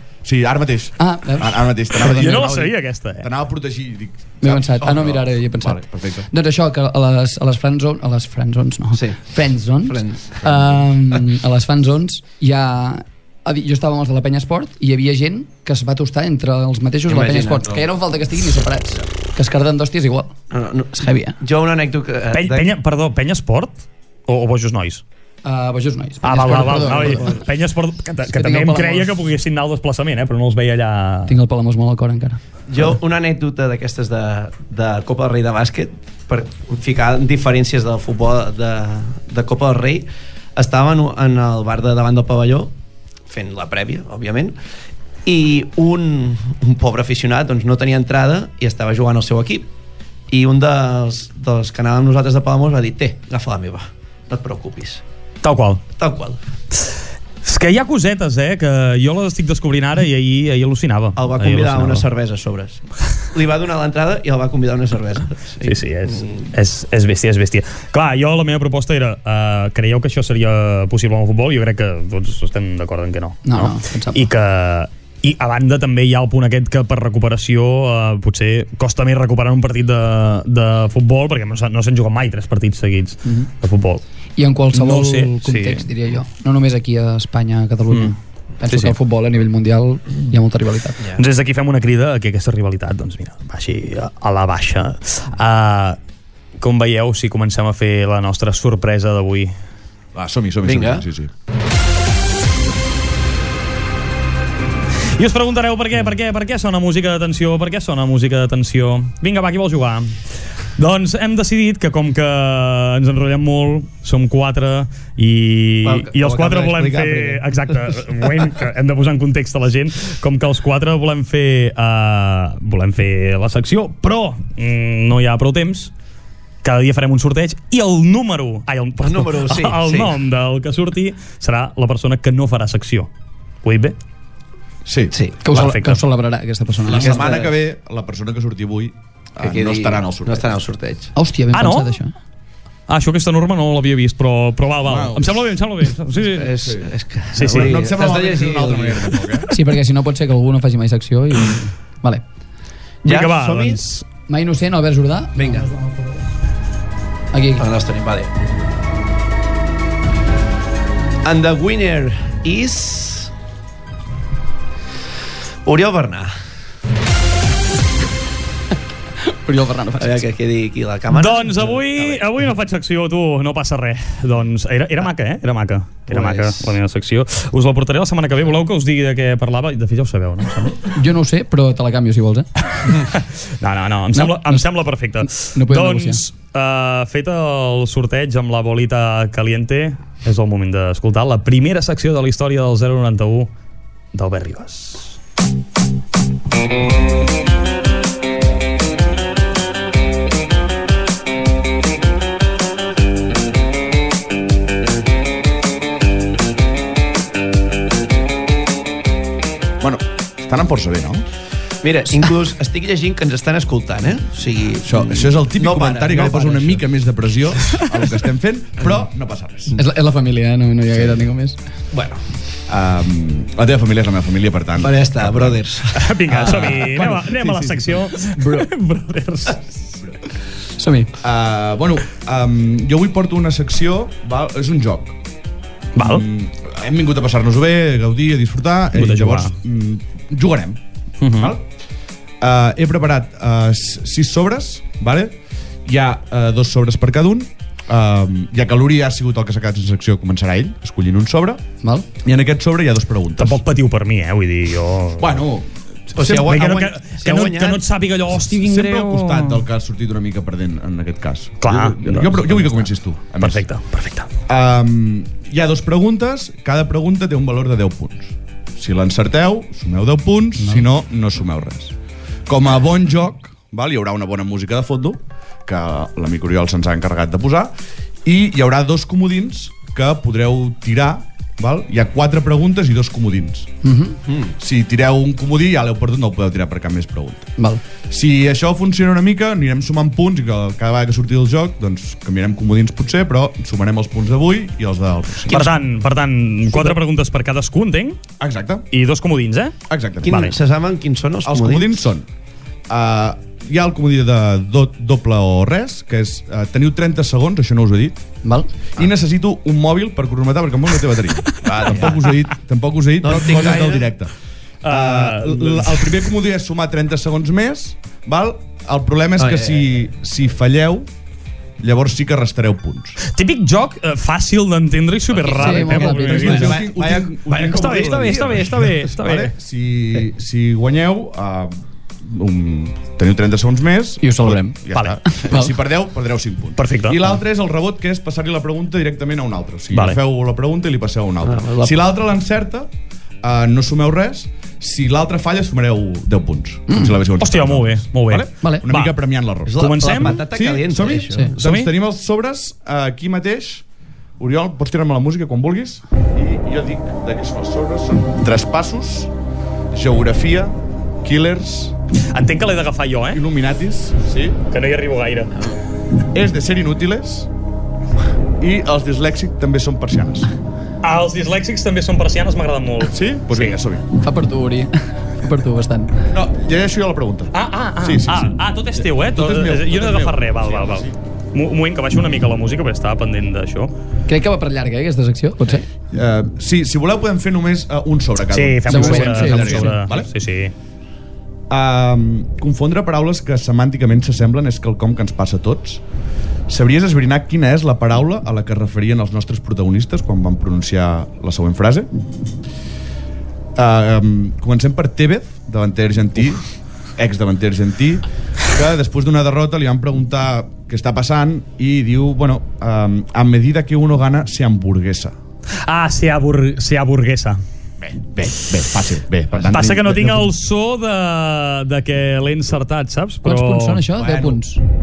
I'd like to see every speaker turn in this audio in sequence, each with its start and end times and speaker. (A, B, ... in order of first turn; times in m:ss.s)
0:00.2-0:06.3 A
0:01.0-0:02.5 B
0:02.0-0:03.3 C
0:04.4-0:20.3 B
0:08.9-0:09.2 D
0:09.8-0:10.4 D
0:17.1-0:17.8 D
0:20.5-0:22.7 D
0:20.9-0:21.4 B
0:22.3-0:25.0 C
0:25.4-0:27.4 B
0:26.2-0:31.4 C
0:28.3-0:29.2 B
0:31.3-0:32.4 B
0:32.7-0:42.7 D
0:43.3-0:44.6 D
0:45.2-0:49.7 D
0:50.3-0:55.0 D
0:55.4-0:55.8 C
0:56.0-0:56.4 D
0:57.4-1:02.1 C
1:01.2-1:06.5 D
1:05.6-1:24.0 C
1:13.4-1:14.3 B
1:24.4-1:31.0 B
1:24.7-1:25.9 C
1:28.7-1:29.0 C
1:31.2-1:36.0 C
1:36.6-1:39.5 C
1:40.2-1:41.3 A
1:40.6-1:41.0 D
1:45.2-1:50.1 C
1:50.8-2:05.9 C
1:55.8-1:57.4 D
2:06.6-2:13.1 C
2:09.0-2:10.2 D
2:13.6-2:14.0 C
2:14.8-2:15.2 A
2:15.4-2:17.2 B
2:15.5-2:16.0 C
2:16.8-2:20.5 A
2:16.9-2:17.5 D
2:19.4-2:21.1 D
2:21.2-2:22.1 B
2:21.5-2:22.0 C
2:22.9-2:26.8 C
2:24.8-2:25.5 A
2:26.2-2:29.3 D
2:26.6-2:26.9 A
2:27.3-2:27.8 C
2:27.5-2:29.5 A
2:29.5-2:32.2 B
2:33.0-2:34.0 C
2:33.0-2:33.8 D
2:34.3-2:36.2 B
2:35.4-2:35.7 D
2:37.3-2:37.7 B
2:37.6-2:38.3 D
2:41.2-2:43.3 D
2:45.6-2:46.3 D
2:49.2-2:50.2 B
2:50.0-2:52.2 D
2:51.1-3:00.8 C
2:56.1-2:56.7 D
3:00.9-3:02.5 B
3:02.8-3:13.5 C
3:04.1-3:04.7 B
3:05.5-3:06.2 B
3:14.1-3:15.2 C
3:29.8-3:31.2 A
3:31.8-3:36.8 D
3:34.8-3:39.8 A
3:39.8-3:41.6 B
3:41.9-3:42.2 D
3:42.7-3:45.6 A
3:44.8-3:47.0 D
3:45.9-3:49.8 C
3:46.3-3:47.9 A
3:48.4-3:48.6 B
3:50.8-3:51.1 B
3:51.2-3:55.2 A
3:56.0-3:56.2 C
3:56.0-4:00.8 A
3:59.0-3:59.5 C
4:01.2-4:01.5 C
4:01.4-4:01.6 A
4:02.4-4:11.6 A
4:12.2-4:13.6 A
4:13.4-4:15.3 C
4:15.2-4:16.7 A
4:16.2-4:17.8 D
4:16.3-4:19.6 C
4:18.5-4:23.6 A
4:21.6-4:24.3 C
4:24.5-4:32.0 A
4:32.5-4:37.7 A
4:38.2-4:43.7 A
4:43.8-4:44.2 B
4:44.3-4:44.5 D
4:44.6-4:47.5 A
4:48.1-4:55.6 A
4:55.5-4:55.8 D
4:55.5-4:58.2 C
4:58.4-4:58.9 A
4:58.9-5:00.6 C
4:59.9-5:00.3 A
5:00.2-5:02.0 D
5:01.4-5:02.3 A
5:02.9-5:08.2 A
5:09.0-5:14.3 A
5:11.7-5:12.2 D
5:13.2-5:14.1 D
5:14.8-5:16.1 C
5:14.8-5:21.1 A
5:19.4-5:19.9 D
5:21.8-5:23.2 A
5:23.2-5:29.5 C
5:25.5-5:25.8 D
5:25.5-5:42.9 A
5:25.5-5:26.8 B
5:27.5-5:28.6 D
5:34.2-5:34.8 B
5:34.9-5:35.2 C
5:35.3-5:35.7 B
5:36.8-5:37.3 C
5:39.9-5:40.2 C
5:41.4-5:42.0 D
5:43.4-5:53.8 A
5:46.9-5:47.2 B
5:47.4-5:49.1 C
5:49.7-5:51.6 D
5:49.7-5:50.5 C
5:51.6-5:51.9 C
5:54.4-5:59.3 A
5:59.9-6:02.0 A
6:02.3-6:03.4 C
6:03.3-6:04.6 A
6:04.7-6:05.7 C
6:06.3-6:07.5 A
6:08.6-6:10.5 A
6:11.0-6:13.8 C
6:13.1-6:14.1 A
6:14.2-6:16.2 B
6:16.3-6:21.2 A
6:17.5-6:23.9 C
6:24.3-6:25.9 B
6:26.1-6:30.3 A
6:28.5-6:30.7 C
6:28.9-6:30.1 B
6:31.7-6:36.0 A
6:36.7-6:42.1 A
6:43.8-6:46.6 A
6:47.2-6:55.4 A
6:55.8-6:57.6 C
6:58.0-7:00.5 A
6:59.6-7:04.0 C
7:03.4-7:04.8 B
7:04.1-7:04.6 A